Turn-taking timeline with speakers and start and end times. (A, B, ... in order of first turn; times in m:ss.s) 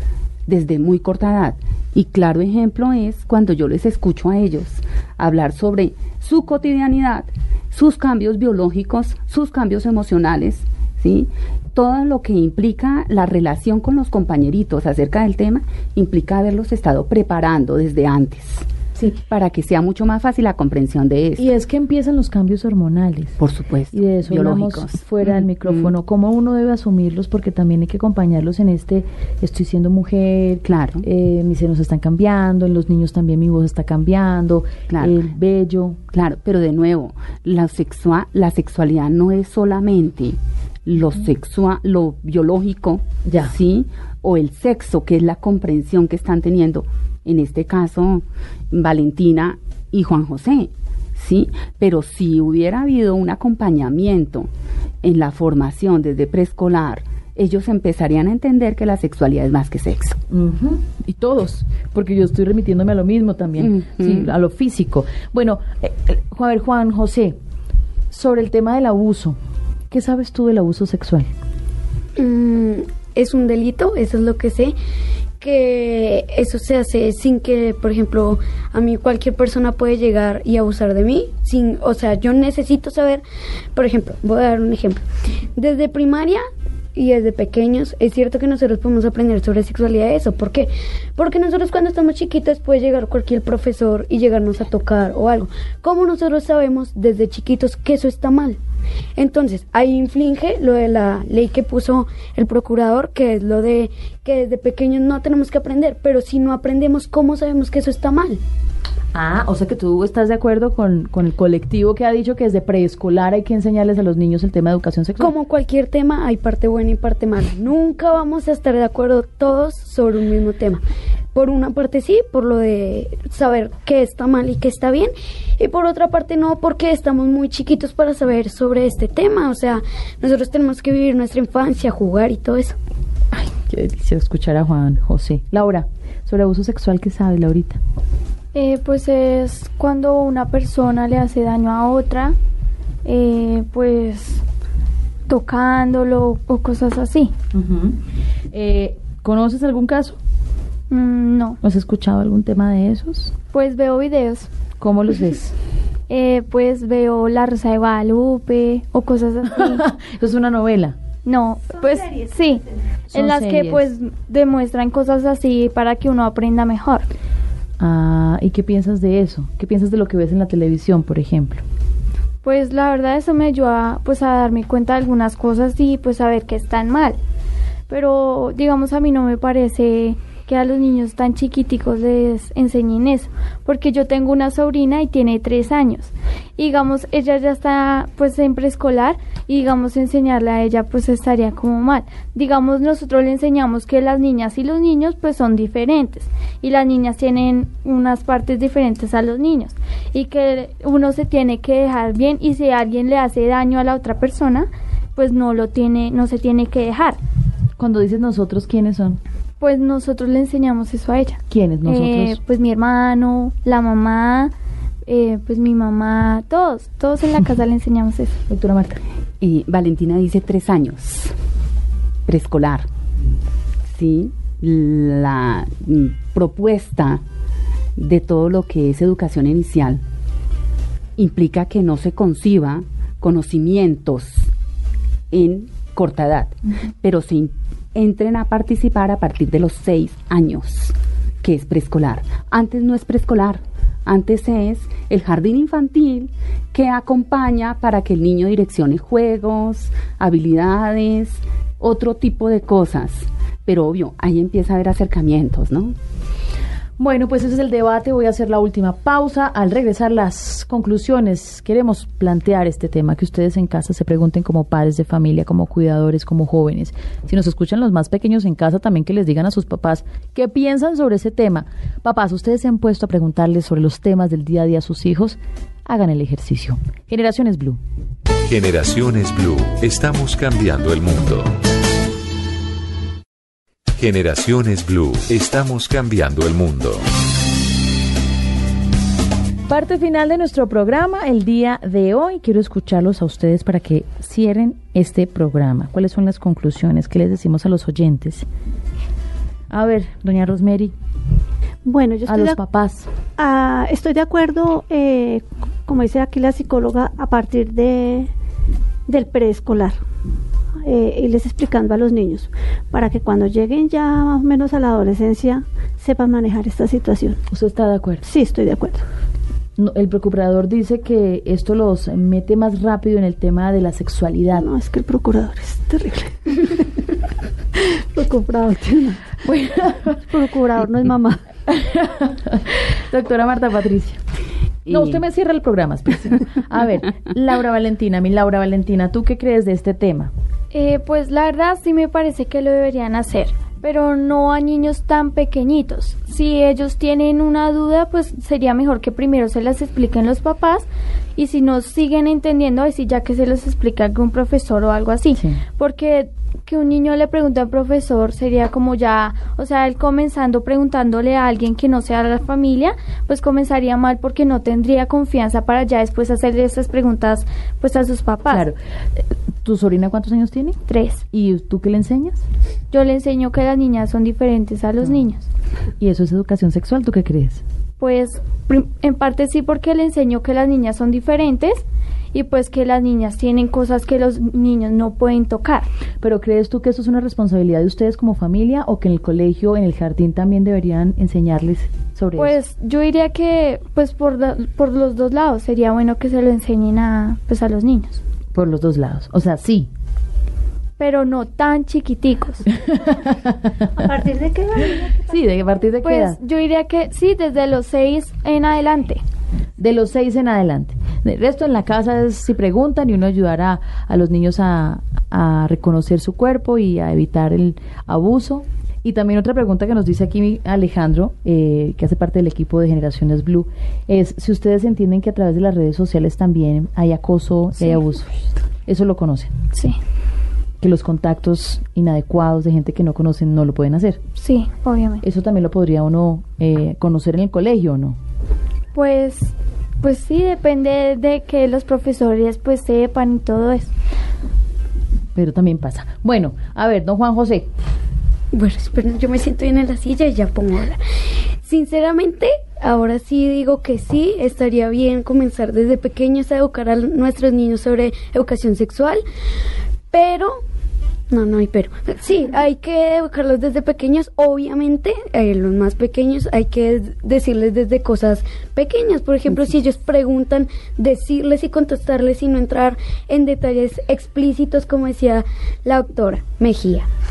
0:00.5-0:18.6 A
0:19.3-0:21.5 A
0:21.4-0:23.4 B
0:23.4-0:25.9 A
0:23.9-0:36.0 B
0:30.6-0:31.0 A
0:34.9-0:35.2 A
0:36.1-0:54.5 A
0:43.2-0:43.5 B
0:55.0-1:00.2 A
1:00.3-1:07.3 B
1:03.6-1:04.3 A
1:08.1-1:09.4 B
1:09.9-1:11.3 B
1:12.2-1:14.7 C
1:15.4-1:23.2 C
1:23.7-1:26.4 C
1:27.0-1:38.6 C
1:39.2-1:48.4 C
1:49.1-1:55.3 B
1:55.2-2:12.8 C
2:13.3-2:17.8 B
2:18.5-2:22.3 D
2:23.0-2:24.4 D
2:25.3-2:27.3 D
2:27.5-2:28.0 B
2:28.5-2:30.2 B
2:30.9-2:31.6 D
2:31.6-2:33.3 B
2:33.5-2:34.5 D
2:34.8-2:35.5 B
2:36.1-2:39.8 D
2:39.4-2:41.0 B
2:41.2-2:47.1 D
2:43.1-2:43.8 B
2:47.8-2:51.6 B
2:52.4-2:57.2 D
2:57.9-3:27.2 D
3:27.8-3:29.2 B
3:29.6-3:34.5 D
3:31.5-3:32.4 B
3:35.0-3:38.4 D
3:38.5-3:39.0 B
3:39.4-3:41.3 A
3:42.3-3:42.9 A
3:43.9-3:47.2 A
3:48.0-3:50.0 A
3:51.2-3:54.5 A
3:55.3-4:16.0 A
4:17.0-4:37.8 B
4:38.5-4:41.5 E
4:43.9-4:47.0 E
4:49.7-4:58.4 B
4:59.7-5:00.9 B
5:01.8-5:02.6 F
5:02.2-5:03.1 B
5:03.4-5:08.3 F
5:09.1-5:10.0 F
5:10.8-5:17.4 F
5:17.5-5:18.2 B
5:18.2-5:19.0 F
5:19.8-5:24.7 B
5:24.6-5:27.0 F
5:28.1-5:29.3 F
5:29.4-5:30.2 B
5:30.2-5:31.4 F
5:31.7-5:34.2 B
5:34.8-5:35.2 A
5:34.9-5:40.3 B
5:40.7-6:08.6 D
5:55.3-5:55.6 B
6:08.5-6:10.8 B
6:10.9-6:11.2 D
6:11.3-6:12.4 B
6:12.9-6:15.5 D
6:16.0-6:17.6 B
6:18.0-6:25.9 D
6:26.2-6:32.6 B
6:32.4-6:38.2 D
6:38.5-6:39.9 B
6:41.0-6:42.6 D
6:42.8-6:44.0 B
6:44.0-6:45.3 F
6:44.8-6:46.4 B
6:46.0-6:49.2 D
6:49.8-7:08.3 B
7:08.8-7:09.5 B
7:10.8-7:14.2 B
7:14.4-7:15.2 D
7:15.2-7:18.2 B
7:18.9-7:23.9 D
7:25.3-7:27.7 B
7:28.5-7:31.0 C
7:31.6-7:39.2 C
7:40.1-7:40.6 C
7:41.3-7:57.1 C